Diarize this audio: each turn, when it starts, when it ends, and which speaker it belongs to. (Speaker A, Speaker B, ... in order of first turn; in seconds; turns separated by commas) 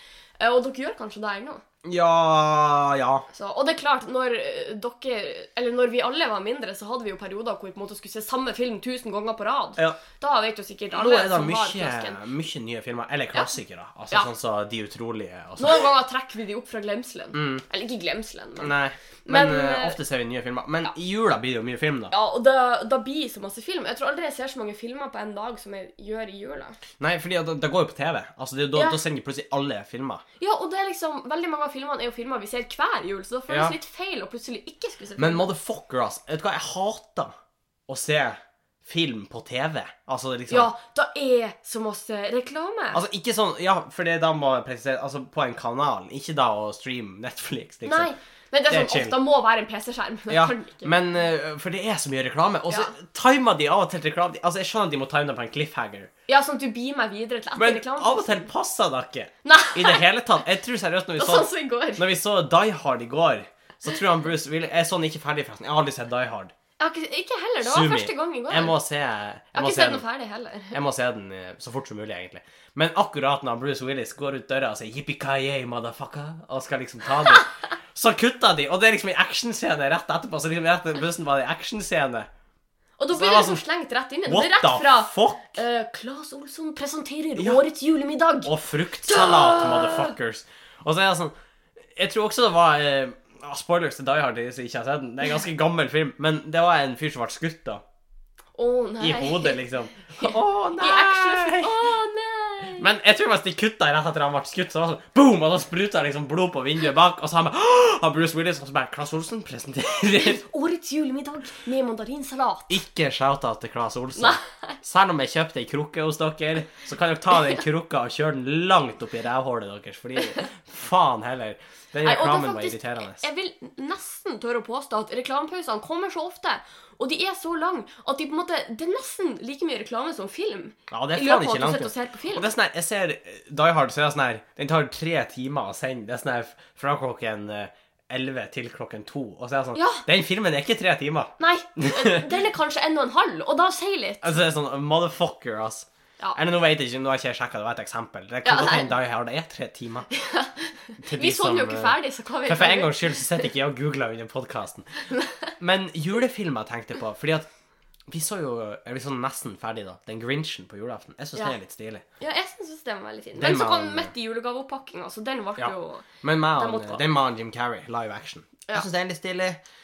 Speaker A: 0.4-1.6, Speaker B: 1.8-3.3, Speaker A: 3.3-12.2, Speaker B: 10.9-15.9, Speaker A: 15.6-18.7, Speaker B: 17.3-17.6, Speaker B: 18.6-22.1, Speaker A: 19.2-20.0, Speaker A: 22.1-26.8, Speaker B: 27.0-30.2, Speaker A: 28.7-29.0, Speaker A: 30.4-35.5, Speaker B: 33.5-33.7, Speaker B: 35.2-37.3, Speaker B: 37.9-40.7, Speaker A: 40.5-43.0, Speaker B: 42.9-48.1, Speaker A: 47.9-51.0, Speaker B: 48.7-49.2, Speaker B: 50.3-56.1, Speaker A: 56.3-58.5, Speaker B: 57.5-66.5, Speaker A: 59.4-60.0, Speaker A: 61.2-62.0, Speaker A: 66.8-68.8, Speaker B: 67.6-70.0, Speaker A: 69.5-70.8, Speaker B: 70.7-82.3, Speaker A: 83.0-88.5, Speaker B: 83.1-83.6, Speaker B: 84.2-85.6, Speaker B: 88.4-91.3, Speaker A: 89.0-90.1, Speaker B: 91.9-97.8, Speaker A: 98.6-99.6, Speaker B: 99.0-101.8, Speaker A: 100.2-102.9, Speaker B: 102.8-110.4, Speaker A: 110.1-112.8, Speaker B: 112.7-123.2, Speaker A: 114.2-114.8, Speaker A: 122.0-132.5, Speaker B: 130.9-142.3, Speaker A: 139.7-140.0, Speaker A: 141.4-144.3, Speaker B: 144.2-150.1, Speaker A: 148.4-148.9, Speaker A: 150.1-153.4, Speaker B: 151.0-154.9, Speaker A: 155.1-155.5, Speaker B: 155.6-157.5, Speaker B: 158.1-162.0, Speaker A: 162.2-166.1, Speaker B: 163.3-164.1, Speaker B: 165.6-169.6, Speaker A: 166.6-167.0